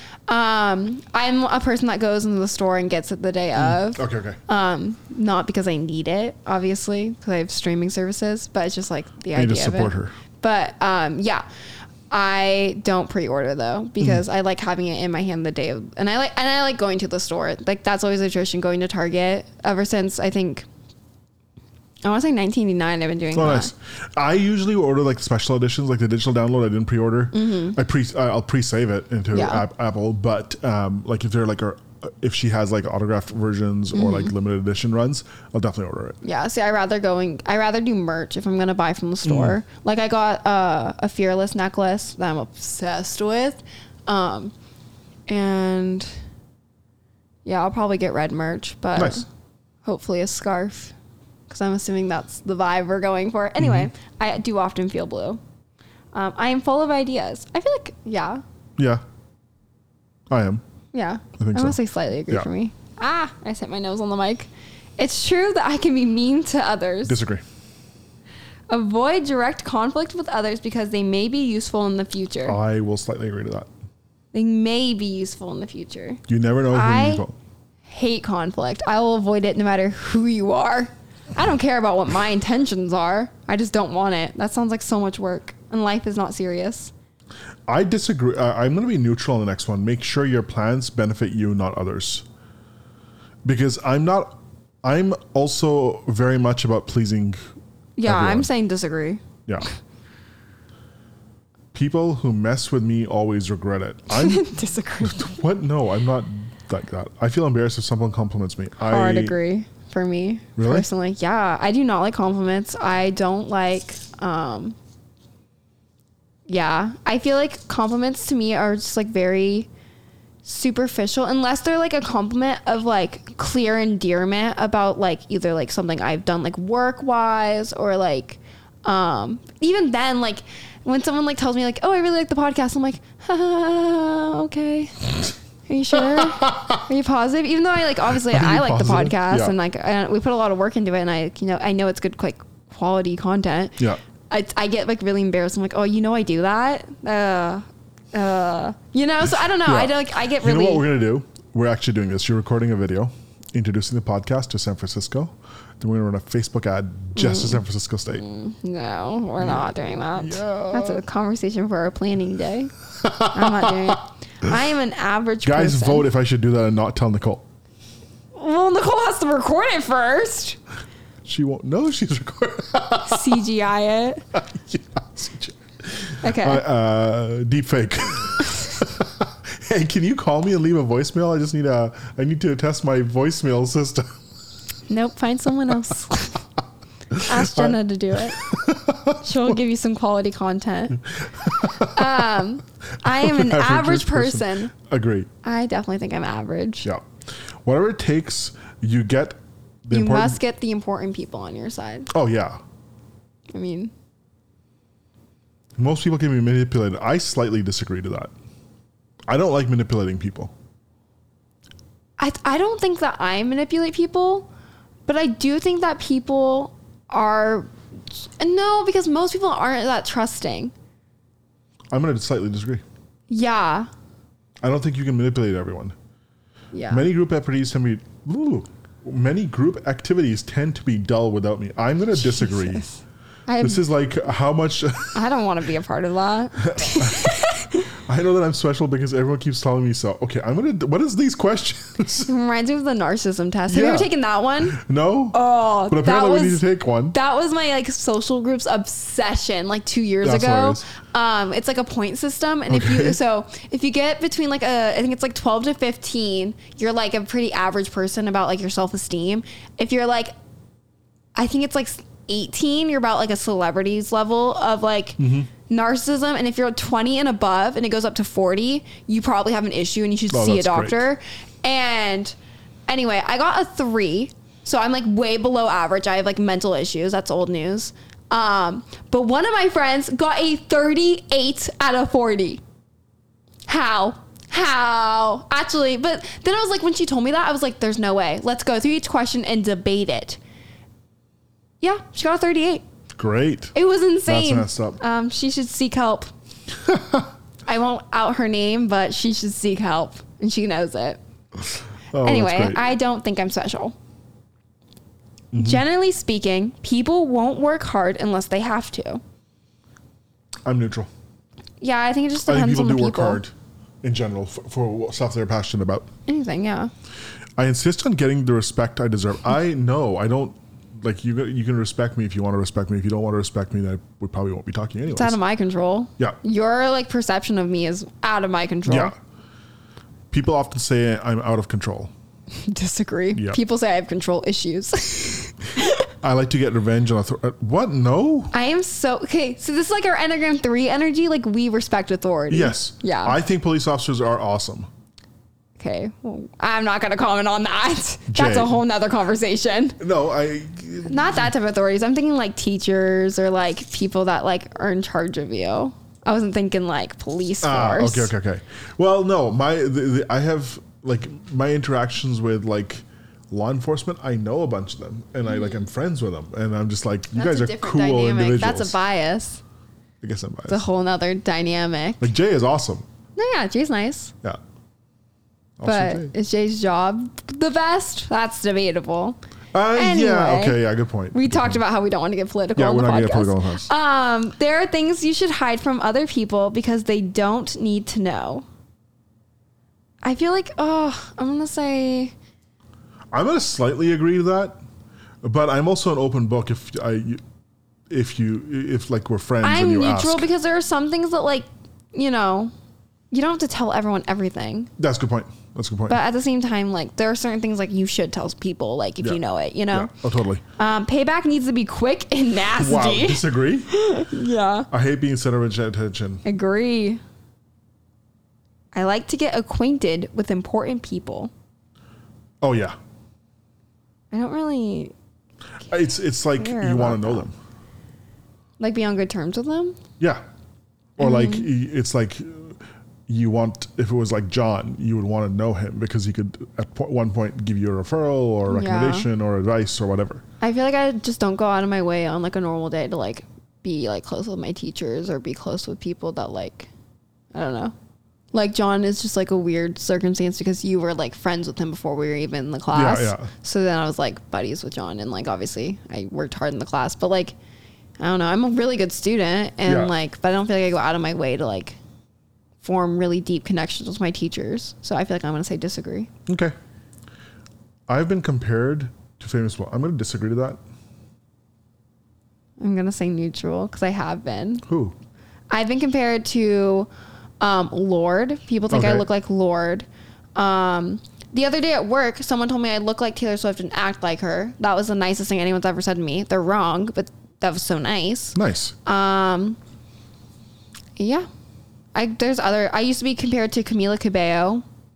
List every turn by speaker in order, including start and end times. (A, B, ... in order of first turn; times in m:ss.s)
0:00.3-0:11.4 A
0:03.5-0:04.4 B
0:09.3-0:10.1 B
0:12.1-0:20.7 A
0:22.0-0:23.7 A
0:23.3-0:36.2 B
0:27.3-0:27.8 A
0:29.3-0:29.6 A
0:33.9-0:34.3 A
0:36.2-0:44.5 A
0:39.2-0:39.6 B
0:45.3-0:46.1 A
0:47.4-0:49.2 A
0:49.0-0:49.2 B
0:49.8-0:50.9 A
0:51.5-0:55.4 A
0:53.6-0:53.9 B
0:56.1-0:58.4 A
0:58.8-0:59.0 B
1:00.3-1:00.6 B
1:00.9-1:07.2 A
1:01.4-1:02.5 B
1:07.0-1:07.4 B
1:08.7-1:12.6 A
1:12.4-1:13.7 B
1:14.3-1:16.2 A
1:16.3-1:17.4 B
1:16.7-1:17.2 A
1:17.9-1:26.9 A
1:27.7-1:32.2 B
1:33.4-1:37.4 B
1:38.0-1:39.2 A
1:38.0-1:38.5 B
1:41.7-1:49.4 B
1:44.1-1:45.4 A
1:48.8-1:54.8 A
1:50.6-1:50.9 B
1:56.5-1:59.7 A
2:00.4-2:30.8 A
2:16.0-2:16.8 B
2:18.1-2:19.5 B
2:29.6-2:38.2 B
2:37.2-2:46.1 A
2:39.4-2:41.0 B
2:43.0-2:44.0 B
2:45.4-2:47.4 B
2:48.3-2:50.6 A
2:51.2-2:53.4 B
2:53.0-2:54.2 A
2:54.3-3:04.2 B
2:56.2-2:56.6 A
3:04.9-3:06.4 A
3:07.1-3:07.8 B
3:07.2-3:08.4 A
3:08.3-3:09.6 B
3:09.2-3:11.0 A
3:11.2-3:12.4 B
3:11.8-3:14.7 A
3:13.0-3:15.3 B
3:15.4-3:16.9 A
3:17.6-3:20.4 B
3:19.9-3:22.1 A
3:22.1-3:22.6 B
3:23.5-3:23.9 A
3:25.8-3:28.3 B
3:29.3-3:30.5 B
3:32.2-3:34.5 A
3:35.1-3:40.7 A
3:41.9-3:42.8 B
3:43.3-3:43.9 A
3:44.6-3:46.0 B
3:46.7-3:47.1 A
3:46.9-3:52.8 B
3:52.2-3:53.8 A
3:53.6-3:55.2 B
3:55.1-3:57.9 A
3:56.6-4:02.3 B
4:02.2-4:04.8 A
4:03.7-4:07.2 B
4:05.3-4:20.3 A
4:10.2-4:10.9 B
4:12.7-4:13.2 B
4:21.4-4:32.3 A
4:25.2-4:25.5 B
4:30.3-4:31.1 B
4:32.9-4:42.6 A
4:43.7-4:50.4 A
4:51.8-4:52.8 A
4:53.2-4:53.7 B
4:53.7-4:56.3 A
4:54.3-4:55.0 B
4:56.8-4:57.3 B
4:57.7-5:01.2 A
5:02.1-5:02.9 B
5:02.2-5:04.0 A
5:05.5-5:05.8 B
5:05.6-5:09.2 A
5:10.6-5:11.1 B
5:11.8-5:13.4 A
5:12.4-5:16.1 B
5:16.3-5:16.9 A
5:17.6-5:25.4 B
5:25.1-5:29.1 A
5:28.8-5:29.1 B
5:30.3-5:32.1 B
5:32.5-5:36.1 A
5:33.3-5:33.6 B
5:36.2-5:38.5 B
5:38.5-5:43.4 A
5:42.5-5:44.9 B
5:45.8-5:50.0 A
5:48.3-5:48.8 B
5:50.0-5:51.5 B
5:51.1-5:58.3 A
5:57.6-6:09.0 B
6:05.6-6:05.8 A
6:07.3-6:09.6 A
6:10.2-6:10.8 B
6:10.7-6:12.3 A
6:12.2-6:13.0 B
6:13.4-6:14.3 A
6:15.8-6:16.3 B
6:15.8-6:19.4 A
6:19.7-6:21.8 B
6:19.9-6:20.8 A
6:21.3-6:28.6 A
6:22.7-6:23.9 B
6:30.2-6:32.3 A
6:33.3-6:34.8 B
6:35.4-6:37.4 B
6:38.1-6:40.5 B
6:39.6-6:42.7 A
6:43.3-6:44.9 A
6:45.0-6:46.2 B
6:46.1-6:50.1 A
6:49.9-6:50.6 B
6:50.8-6:54.9 A
6:52.7-6:53.9 B
6:54.9-6:56.4 B
6:56.4-6:57.2 A
6:58.9-7:01.5 A
7:02.6-7:03.0 B
7:04.3-7:05.1 A
7:05.9-7:07.5 B
7:06.6-7:07.4 A
7:08.8-7:10.0 A
7:11.2-7:20.4 B
7:11.2-7:11.7 A
7:18.6-7:19.3 A
7:20.6-7:26.9 A
7:27.5-7:27.9 A
7:28.5-7:37.6 A
7:32.9-7:33.5 B
7:38.2-7:42.0 A
7:39.8-7:40.1 B
7:42.8-7:46.3 A
7:46.5-7:46.7 B
7:48.1-7:50.8 B
7:52.8-7:54.8 A
7:54.8-7:55.2 B
7:55.7-7:57.1 A
7:57.6-8:09.8 A
7:58.9-7:59.2 B
8:08.5-8:09.0 B
8:11.2-8:11.5 A
8:12.1-8:14.8 A